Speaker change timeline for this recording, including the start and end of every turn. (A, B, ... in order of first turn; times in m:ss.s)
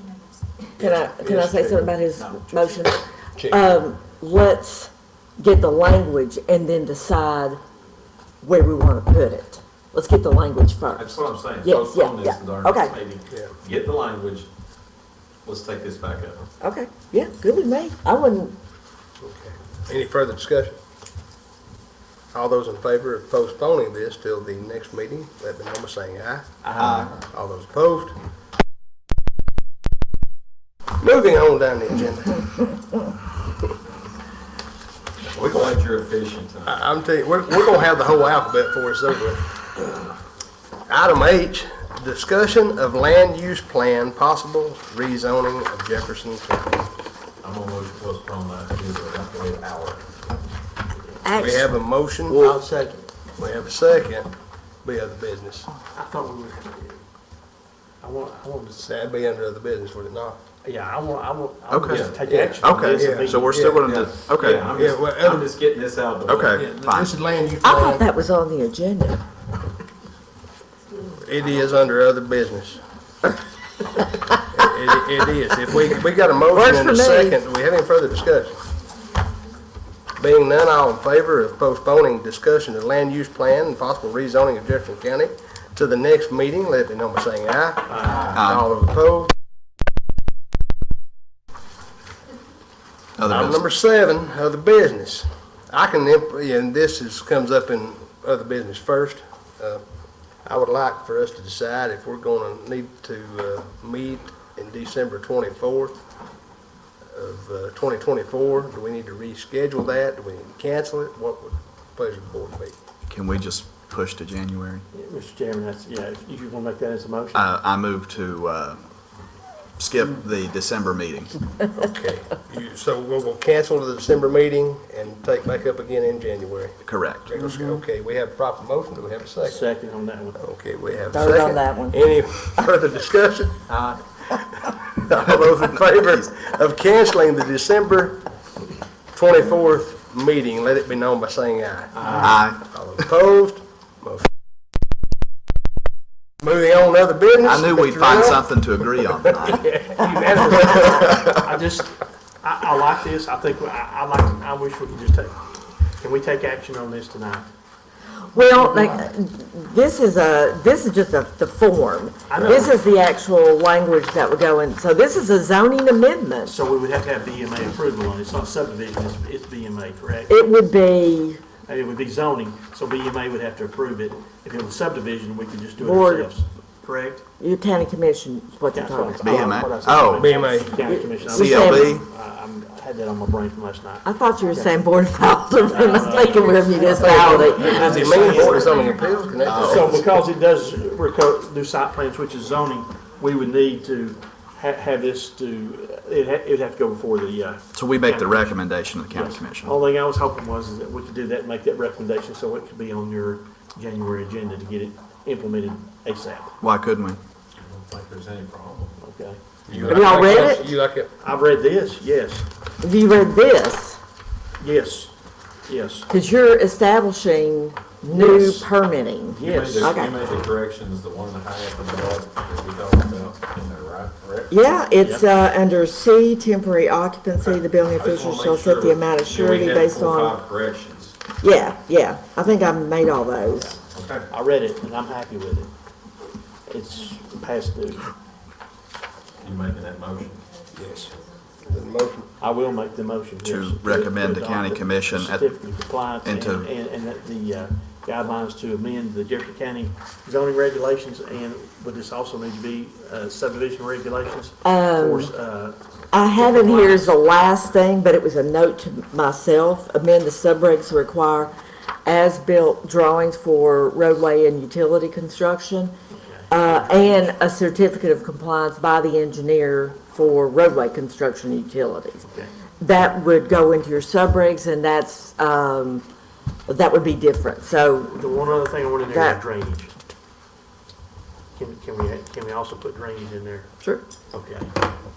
0:00.8-0:07.6 A
0:01.2-0:01.7 B
0:03.4-0:03.8 B
0:08.4-0:13.0 A
0:11.0-0:14.5 C
0:13.3-0:13.5 B
0:15.4-0:16.5 C
0:16.6-0:18.6 A
0:19.2-0:20.8 B
0:22.3-0:28.2 B
0:26.6-0:27.1 D
0:26.8-0:27.2 C
0:31.0-0:32.5 B
0:35.3-0:36.9 C
0:36.7-0:39.6 B
0:40.9-0:46.7 B
0:47.4-0:50.0 C
0:51.2-0:51.7 A
0:51.3-0:52.6 B
0:52.3-0:52.8 A
0:53.4-0:54.3 B
0:54.8-0:55.7 B
0:55.9-0:57.0 D
0:58.0-0:58.8 D
0:58.8-1:00.4 B
1:00.6-1:03.6 D
1:01.7-1:02.0 E
1:01.9-1:02.2 C
1:01.9-1:03.9 B
1:02.6-1:04.7 E
1:03.7-1:06.7 C
1:04.7-1:05.5 B
1:06.3-1:07.1 E
1:06.5-1:08.0 B
1:07.6-1:09.2 A
1:11.1-1:12.8 B
1:14.5-1:18.6 B
1:16.5-1:17.4 A
1:20.2-1:29.3 B
1:27.9-1:28.4 D
1:28.3-1:28.6 E
1:33.2-1:33.6 E
1:33.3-1:39.8 B
1:40.4-1:46.0 B
1:47.1-1:52.8 B
1:53.1-1:54.8 E
1:54.9-1:57.4 D
1:57.3-1:58.8 E
1:59.8-2:01.3 E
2:01.7-2:09.6 B
2:06.8-2:07.3 E
2:09.4-2:10.4 D
2:10.4-2:18.2 B
2:11.1-2:12.0 A
2:19.1-2:24.3 B
2:22.0-2:22.4 D
2:22.2-2:22.6 E
2:26.4-2:28.5 B
2:27.4-2:29.7 E
2:29.1-2:30.9 B
2:30.0-2:37.5 D
2:38.3-2:46.5 A
2:38.6-2:39.0 D
2:42.3-2:42.8 D
2:46.5-2:50.3 D
2:50.3-2:51.4 A
2:51.7-2:57.2 D
2:55.8-2:56.3 A
2:57.4-2:59.6 A
2:58.7-3:04.8 D
2:59.2-3:00.4 E
3:00.2-3:00.8 B
3:00.8-3:02.0 A
3:01.3-3:02.0 E
3:04.0-3:08.9 A
3:05.6-3:08.7 D
3:06.8-3:10.1 B
3:09.4-3:09.9 E
3:09.6-3:18.6 D
3:17.7-3:19.8 E
3:19.1-3:26.5 D
3:26.6-3:27.2 E
3:27.6-3:29.0 C
3:29.0-3:29.4 D
3:29.7-3:31.1 B
3:29.7-3:30.6 C
3:29.9-3:30.7 A
3:31.2-3:32.5 D
3:32.8-3:34.0 A
3:34.6-3:35.1 D
3:35.7-3:36.1 D
3:36.1-3:40.1 A
3:38.1-3:38.7 D
3:39.3-3:44.5 C
3:39.4-3:40.1 D
3:44.5-3:50.4 A
3:45.0-3:45.3 D
3:47.9-3:51.2 C
3:51.4-3:53.8 A
3:53.5-3:55.7 D
3:53.9-3:54.3 C
3:56.7-3:58.1 D
3:59.4-4:00.4 C
4:00.7-4:01.1 B
4:01.6-4:02.3 B
4:02.4-4:17.1 D
4:03.4-4:05.5 E
4:06.1-4:06.7 E
4:14.6-4:15.3 A
4:16.1-4:21.5 A
4:22.0-4:25.9 A
4:26.2-4:27.4 D
4:26.5-4:32.3 A
4:32.2-4:32.5 D
4:32.8-4:36.0 A
4:36.7-4:38.2 A
4:38.1-4:39.9 D
4:39.1-4:39.4 A
4:41.5-4:43.7 D
4:44.3-4:44.7 D